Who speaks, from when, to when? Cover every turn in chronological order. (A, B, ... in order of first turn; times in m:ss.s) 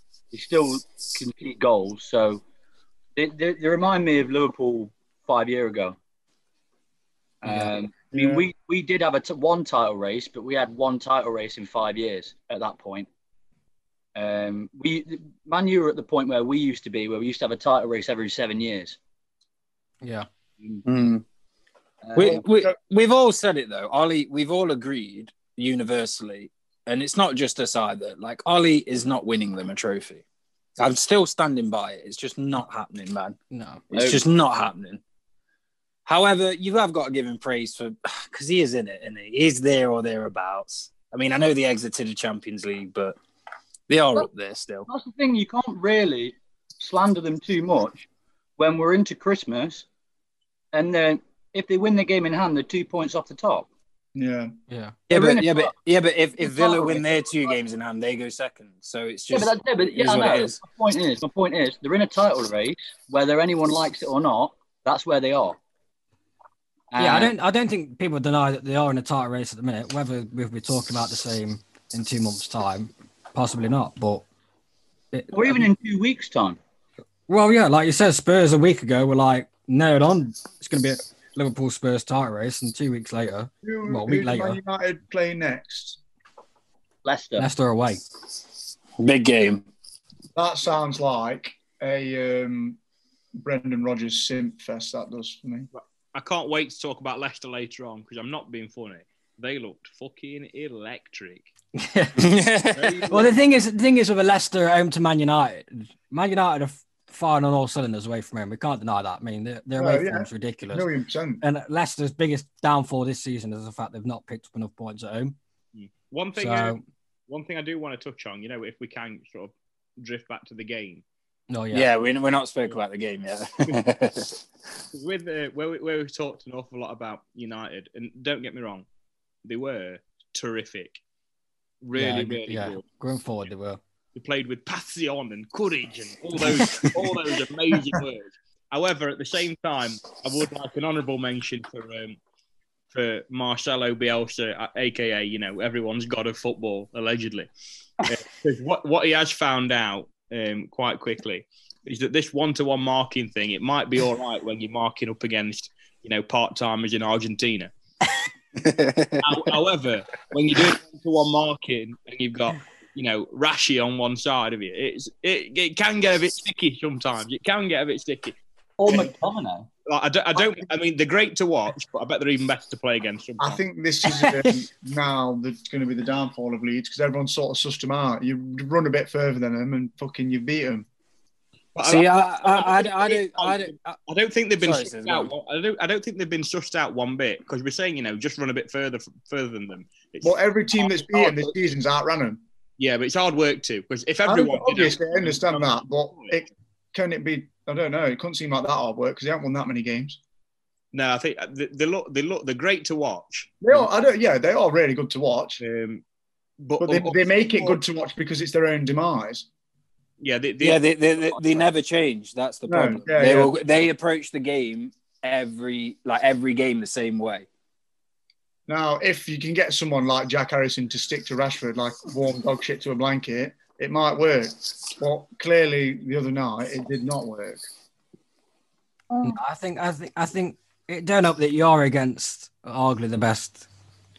0:00.3-0:02.4 A
0:03.2-0:06.0 A
0:07.4-0:13.1 A
0:08.1-0:08.5 B
0:14.2-0:19.0 A
0:20.0-0:20.3 C
0:20.8-0:21.2 D
0:22.0-0:22.4 A
0:22.2-0:30.2 D
0:22.2-0:22.7 B
0:30.8-0:33.4 D
0:33.5-0:33.8 C
0:33.9-0:35.0 D
0:33.9-0:34.3 A
0:36.1-0:43.2 D
0:43.9-0:44.9 D
0:44.9-0:48.1 A
0:48.6-0:49.9 A
0:50.7-0:53.7 A
0:54.2-0:54.5 B
0:54.7-0:55.0 C
0:55.1-1:00.6 D
0:55.1-0:55.7 A
0:56.4-0:57.6 A
0:59.3-1:05.6 A
1:06.9-1:07.3 A
1:07.0-1:14.2 C
1:15.1-1:15.7 C
1:15.3-1:16.6 A
1:17.3-1:24.6 C
1:23.6-1:26.0 B
1:27.0-1:27.5 A
1:27.4-1:28.0 C
1:29.0-1:29.7 D
1:30.4-1:32.8 B
1:33.4-1:35.7 B
1:35.7-1:41.5 E
1:41.8-1:42.3 C
1:42.2-1:43.0 D
1:42.8-1:43.3 E
1:43.0-1:43.3 A
1:43.1-1:50.9 C
1:49.8-1:51.4 B
1:51.4-1:55.4 C
1:55.8-1:56.8 E
1:56.4-1:56.8 C
1:57.3-2:01.0 E
2:01.5-2:01.9 C
2:01.7-2:04.4 D
2:04.9-2:08.9 E
2:09.4-2:11.0 E
2:11.8-2:12.8 E
2:12.0-2:13.8 C
2:14.2-2:22.2 E
2:22.9-2:27.5 E
2:28.0-2:37.7 E
2:38.6-2:39.5 D
2:39.2-2:48.4 E
2:48.8-2:49.7 A
2:49.9-2:53.6 E
2:53.4-3:00.9 B
2:54.1-2:54.5 C
3:01.8-3:11.5 E
3:01.8-3:04.0 D
3:04.6-3:05.3 D
3:10.2-3:12.4 B
3:12.8-3:16.4 E
3:14.3-3:20.2 B
3:20.9-3:23.8 E
3:23.6-3:25.6 B
3:25.6-3:26.0 E
3:26.6-3:27.8 E
3:26.8-3:29.5 B
3:30.2-3:31.6 E
3:30.6-3:37.5 D
3:32.7-3:33.6 B
3:38.7-3:47.7 B
3:49.1-3:49.4 A
3:49.2-3:53.7 C